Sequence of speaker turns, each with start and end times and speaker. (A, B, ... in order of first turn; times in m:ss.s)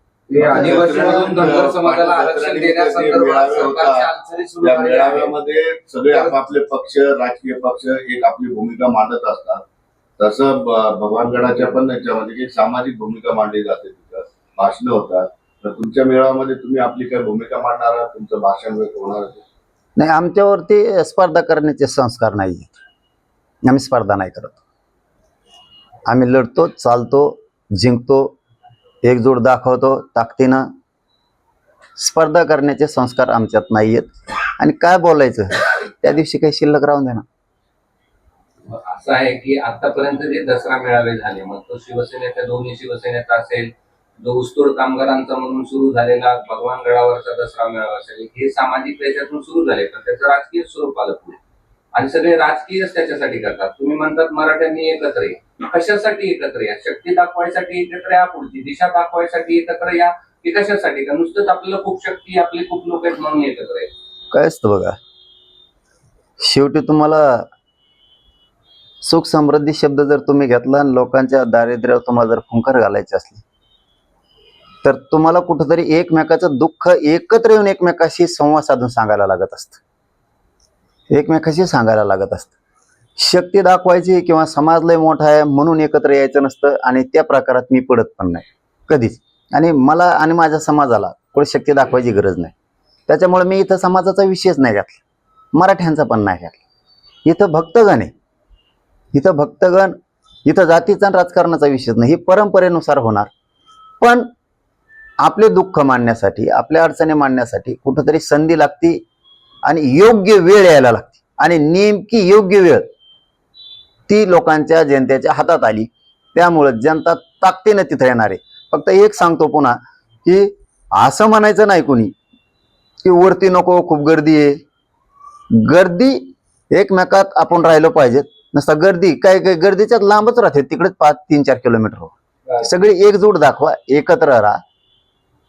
0:00.3-0:05.3 A
0:00.3-0:04.1 B
0:04.6-0:09.6 B
0:06.1-0:06.4 A
0:10.2-0:19.4 B
0:20.0-0:22.8 C
0:23.6-0:24.6 C
0:26.1-0:28.3 C
0:29.0-0:30.7 C
0:32.0-0:37.2 C
0:38.7-0:51.4 A
0:51.9-1:03.9 A
1:04.3-1:05.0 C
1:06.4-1:07.5 C
1:09.0-1:13.4 C
1:14.8-1:19.8 C
1:21.1-1:22.5 C
1:23.2-1:32.5 C
1:33.1-1:35.0 C
1:35.5-1:36.6 C
1:37.2-1:38.1 C
1:39.1-1:43.3 C
1:44.0-1:44.3 C
1:45.2-1:49.0 C
1:49.6-1:52.9 C
1:54.1-2:02.1 C
2:03.0-2:04.6 C
2:05.5-2:14.6 C